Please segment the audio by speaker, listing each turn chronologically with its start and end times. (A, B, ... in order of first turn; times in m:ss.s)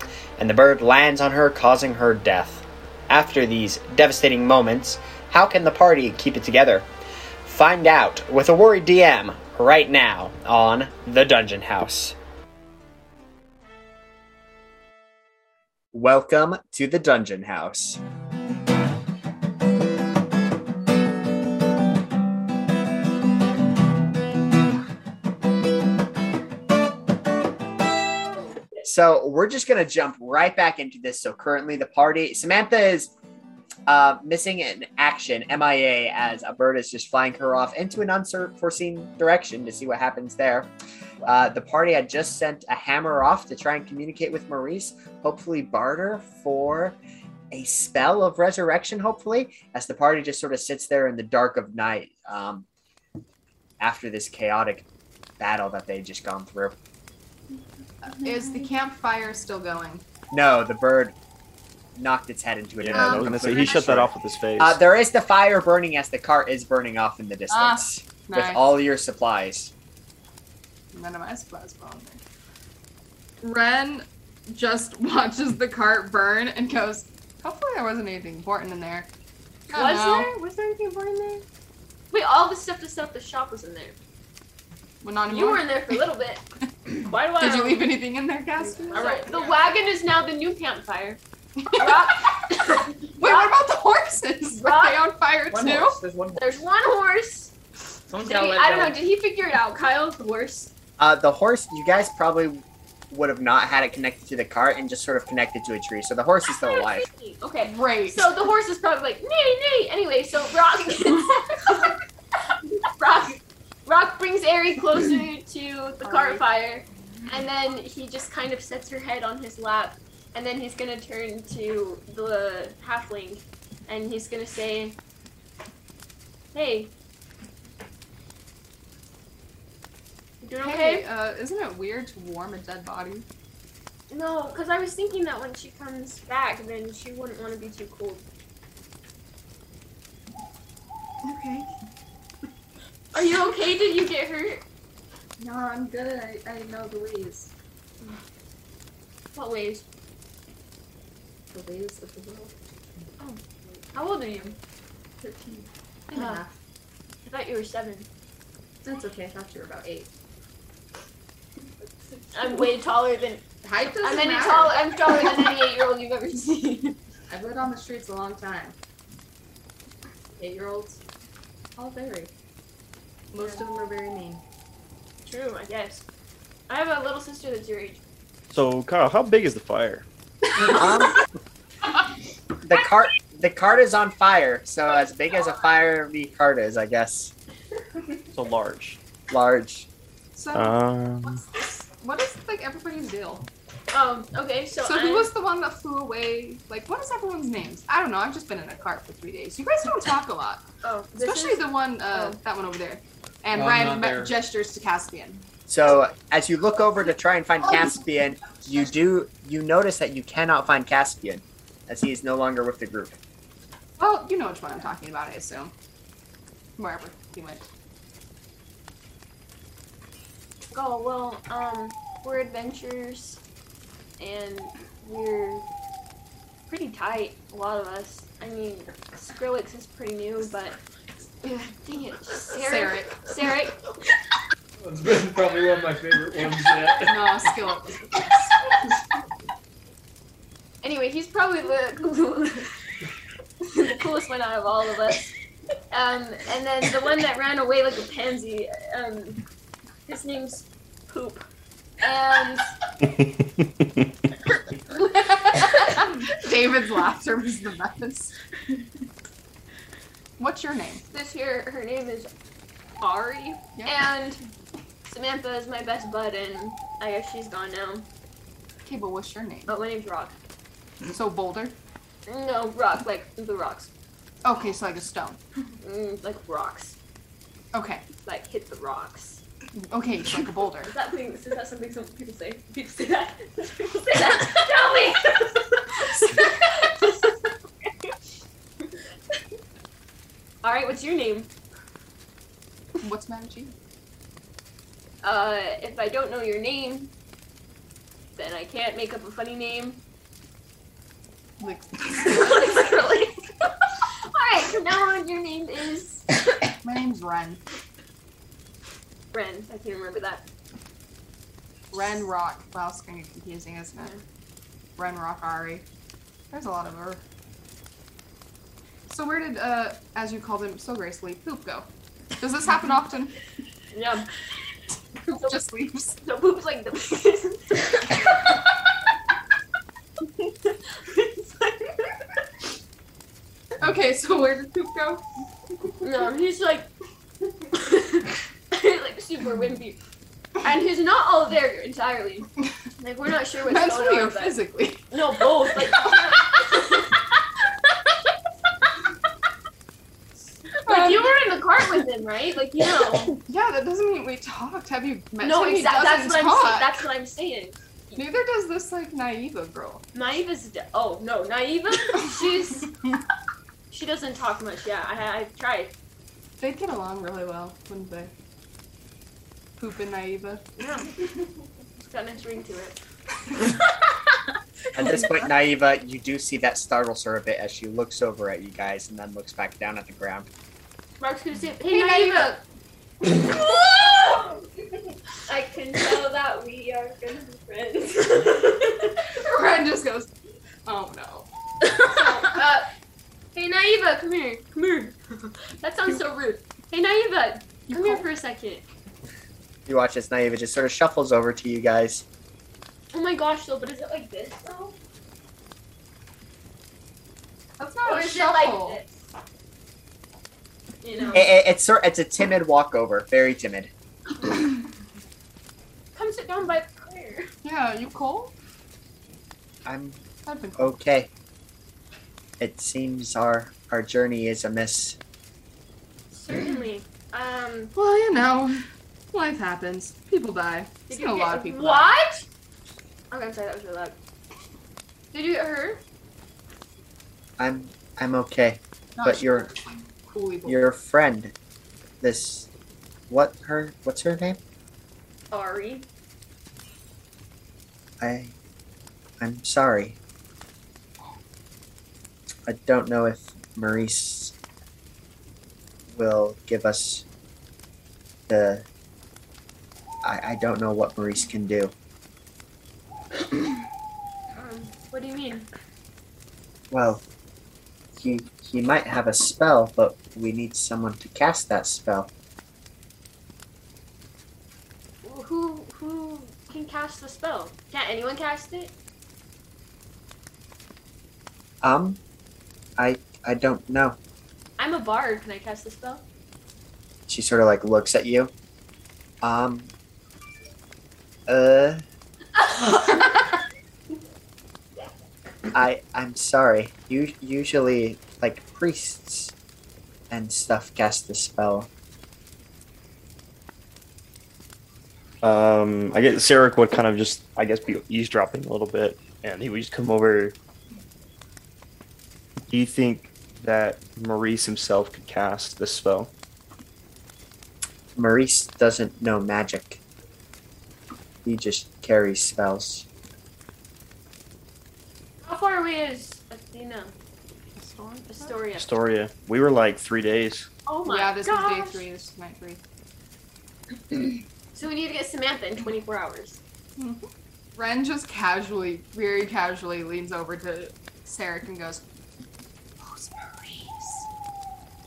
0:00.4-0:06.9 A
0:07.4-0:12.2 A
0:15.9-0:18.0 A
0:28.8-0:33.1 A
0:33.9-0:40.7 A
0:41.2-0:47.0 A
0:47.5-0:52.7 A
0:53.8-0:54.9 A
0:55.4-0:56.8 A
0:58.0-1:00.0 B
1:00.3-1:01.2 A
1:02.0-1:09.7 A
1:02.8-1:04.8 C
1:02.9-1:03.9 B
1:07.5-1:08.6 B
1:10.9-1:12.2 B
1:13.4-1:19.1 B
1:19.7-1:20.4 B
1:19.7-1:21.4 D
1:22.1-1:24.0 D
1:25.0-1:26.0 B
1:25.3-1:26.4 D
1:26.9-1:29.4 B
1:27.0-1:27.9 D
1:28.7-1:31.2 D
1:31.6-1:36.0 B
1:31.7-1:33.6 D
1:34.6-1:35.0 D
1:35.5-1:36.4 E
1:36.4-1:37.5 D
1:38.1-1:38.9 E
1:38.2-1:40.7 D
1:41.0-1:47.1 A
1:46.6-1:52.0 D
1:47.6-1:48.5 B
1:52.8-2:05.0 D
1:56.0-1:56.4 B
2:06.5-2:06.9 D
2:10.4-2:11.1 D
2:10.6-2:13.3 B
2:14.1-2:18.2 D
2:21.2-2:21.7 B
2:23.1-2:24.6 D
2:25.4-2:27.5 B
2:29.4-2:29.8 D
2:31.5-2:32.5 B
2:33.2-2:34.6 D
2:35.2-2:36.5 B
2:36.1-2:36.4 D
2:37.3-2:38.1 D
2:38.8-2:40.1 B
2:42.3-2:43.4 D
2:43.6-2:45.3 B
2:44.0-2:47.0 D
2:47.3-2:48.8 B
2:50.4-2:51.0 B
2:51.8-2:52.3 B
2:53.3-2:54.4 B
2:53.4-2:53.6 D
2:55.2-2:56.0 D
2:56.7-2:58.0 D
2:58.5-3:00.1 C
3:00.6-3:01.2 A
3:02.6-3:07.3 A
3:08.3-3:09.0 C
3:09.3-3:09.9 A
3:10.4-3:13.5 B
3:10.5-3:11.4 C
3:13.9-3:15.3 D
3:14.8-3:20.6 B
3:20.8-3:22.4 D
3:21.1-3:25.5 B
3:23.5-3:24.3 E
3:25.7-3:33.2 A
3:34.0-3:35.7 B
3:36.8-3:37.7 B
3:40.7-3:43.4 D
3:44.2-3:45.6 D
3:46.7-3:50.8 D
3:51.4-3:53.8 D
3:52.5-3:53.2 B
3:54.8-3:57.5 E
3:57.1-3:58.5 B
4:00.8-4:02.7 D
4:03.6-4:05.3 D
4:05.9-4:09.4 D
4:10.1-4:11.4 D
4:12.0-4:12.7 D
4:13.0-4:14.1 C
4:15.2-4:18.3 B
4:20.4-4:21.0 B
4:21.1-4:22.3 D
4:23.0-4:24.4 D
4:25.1-4:28.1 D
4:28.9-4:29.7 B
4:29.7-4:30.3 D
4:31.1-4:31.8 B
4:32.3-4:33.9 D
4:34.4-4:35.4 B
4:35.8-4:37.0 D
4:37.7-4:38.0 B
4:38.2-4:39.4 D
4:39.8-4:40.9 B
4:40.8-4:48.1 D
4:50.6-4:51.5 D
4:53.0-4:53.7 B
4:55.2-4:57.1 D
4:58.4-5:00.0 D
5:01.6-5:02.9 B
5:02.2-5:03.7 D
5:04.3-5:06.4 D
5:06.8-5:07.6 B
5:09.3-5:10.4 D
5:11.9-5:14.1 B
5:15.0-5:15.9 B
5:16.5-5:17.2 B
5:19.1-5:21.9 B
5:22.4-5:23.4 B
5:23.9-5:24.3 D
5:25.3-5:26.2 B
5:26.2-5:28.5 D
5:30.6-5:32.1 D
5:33.8-5:35.2 B
5:36.0-5:36.9 D
5:37.7-5:40.0 D
5:40.6-5:44.6 D
5:43.7-5:45.0 B
5:45.1-5:47.2 D
5:45.7-5:46.6 B
5:50.8-5:53.4 D
5:50.9-5:51.4 B
5:53.5-5:56.9 B
5:55.4-5:58.2 D
5:58.2-6:00.0 B
6:00.1-6:02.9 D
6:03.9-6:05.9 D
6:06.6-6:08.3 B
6:09.8-6:10.6 B
6:10.8-6:11.1 D
6:12.0-6:13.0 D
6:14.9-6:20.5 A
6:21.2-6:22.6 D
6:21.9-6:22.6 B
6:23.3-6:24.6 D
6:25.5-6:29.2 D
6:29.3-6:30.3 B
6:30.9-6:31.5 B
6:31.8-6:32.9 D
6:32.0-6:32.6 B
6:33.6-6:38.9 D
6:37.9-6:38.2 B
6:39.9-6:42.2 A
6:43.1-6:45.0 D
6:47.8-6:49.0 B
6:48.0-6:49.1 D
6:51.0-6:51.5 D
6:51.3-6:53.9 A
6:56.2-6:57.5 D
6:57.6-6:58.5 B
6:59.8-7:00.2 A
7:00.5-7:01.0 B
7:00.8-7:01.3 A
7:02.6-7:05.2 A
7:06.3-7:07.9 D
7:08.0-7:12.1 B
7:11.1-7:12.4 D
7:13.3-7:14.2 D
7:15.3-7:16.0 D
7:17.6-7:19.7 A
7:19.2-7:20.8 B
7:20.7-7:21.5 A
7:22.2-7:22.7 A
7:23.3-7:24.6 A
7:25.5-7:26.1 D
7:28.2-7:28.6 A
7:29.4-7:30.2 A
7:32.7-7:34.5 A
7:36.1-7:37.2 A
7:38.5-7:38.9 A
7:40.2-7:41.9 A
7:44.5-7:45.7 D
7:46.9-7:47.2 A
7:48.2-7:52.3 A
7:55.2-7:58.9 D
8:01.8-8:02.2 A
8:03.0-8:04.2 A
8:04.8-8:06.2 D
8:07.3-8:08.5 A
8:09.4-8:09.9 A
8:11.5-8:12.0 A
8:12.8-8:13.1 D
8:15.7-8:19.5 A
8:20.3-8:21.9 A
8:25.4-8:30.6 C
8:32.7-8:36.3 C
8:38.2-8:40.0 A
8:41.4-8:43.1 A
8:45.4-8:47.1 D
8:47.8-8:48.6 B
8:48.3-8:48.9 D
8:48.8-8:50.7 C
8:50.9-8:52.0 D
8:51.1-8:52.8 B
8:54.8-8:56.6 D
8:57.0-9:02.0 B
9:03.0-9:04.3 B